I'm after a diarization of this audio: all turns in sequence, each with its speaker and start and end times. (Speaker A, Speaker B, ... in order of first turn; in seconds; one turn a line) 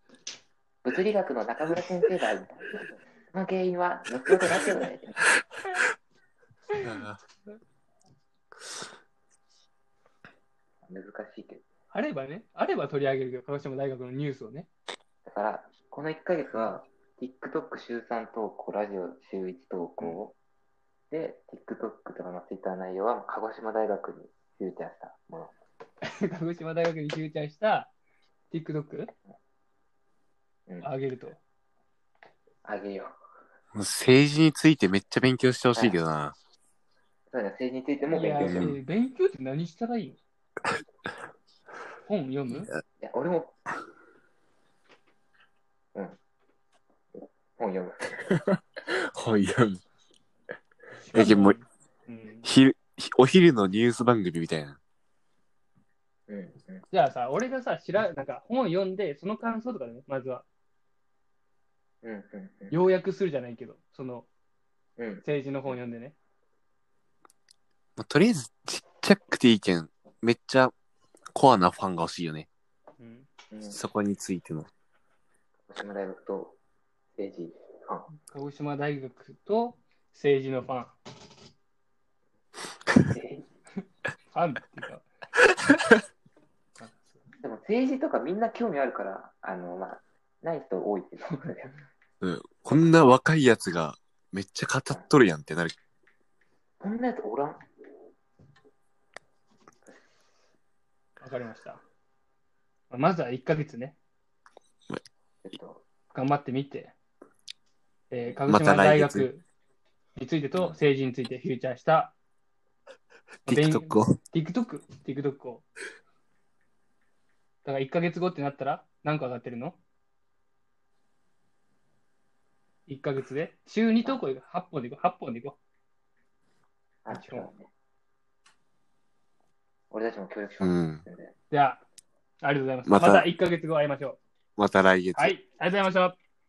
Speaker A: 0.8-5.1
Speaker B: 6.8-7.2
Speaker A: 10.8-11.6
Speaker C: 11.9-14.7
Speaker A: 15.2-20.3
Speaker A: 21.1-25.5
Speaker C: 26.0-27.9
Speaker C: 28.5-29.1
Speaker C: 30.8-31.4
Speaker A: 32.6-33.2
Speaker B: 33.7-36.3
Speaker A: 35.7-36.0
Speaker A: 37.3-38.7
Speaker C: 38.1-40.2
Speaker B: 38.4-38.8
Speaker C: 42.0-42.7
Speaker B: 42.5-42.8
Speaker A: 43.0-43.5
Speaker A: 47.1-48.1
Speaker B: 48.2-49.8
Speaker C: 51.0-52.5
Speaker B: 51.1-51.6
Speaker B: 52.4-54.8
Speaker A: 56.3-56.8
Speaker C: 56.9-60.5
Speaker A: 62.0-62.8
Speaker C: 62.7-64.3
Speaker A: 65.0-65.8
Speaker C: 65.2-66.1
Speaker B: 68.0-70.7
Speaker B: 71.3-72.5
Speaker C: 73.0-73.3
Speaker A: 73.5-73.8
Speaker B: 73.7-74.7
Speaker A: 75.7-76.6
Speaker A: 77.2-78.1
Speaker C: 78.2-81.0
Speaker A: 83.1-83.4
Speaker C: 84.3-85.0
Speaker C: 86.8-87.2
Speaker A: 87.4-91.8
Speaker B: 92.2-95.7
Speaker A: 96.8-97.6
Speaker C: 101.2-101.8
Speaker C: 102.9-104.0
Speaker A: 105.4-105.8
Speaker C: 106.1-106.9
Speaker C: 108.1-109.4
Speaker B: 108.5-109.3
Speaker C: 110.1-112.1
Speaker B: 113.4-114.2
Speaker C: 113.5-115.6
Speaker C: 117.6-119.8
Speaker C: 122.9-125.6
Speaker A: 127.0-127.7
Speaker C: 127.1-127.5
Speaker A: 129.9-131.3
Speaker B: 130.6-131.0
Speaker C: 131.5-131.8
Speaker C: 132.4-134.2
Speaker B: 132.8-133.3
Speaker B: 134.6-135.3
Speaker C: 135.1-136.2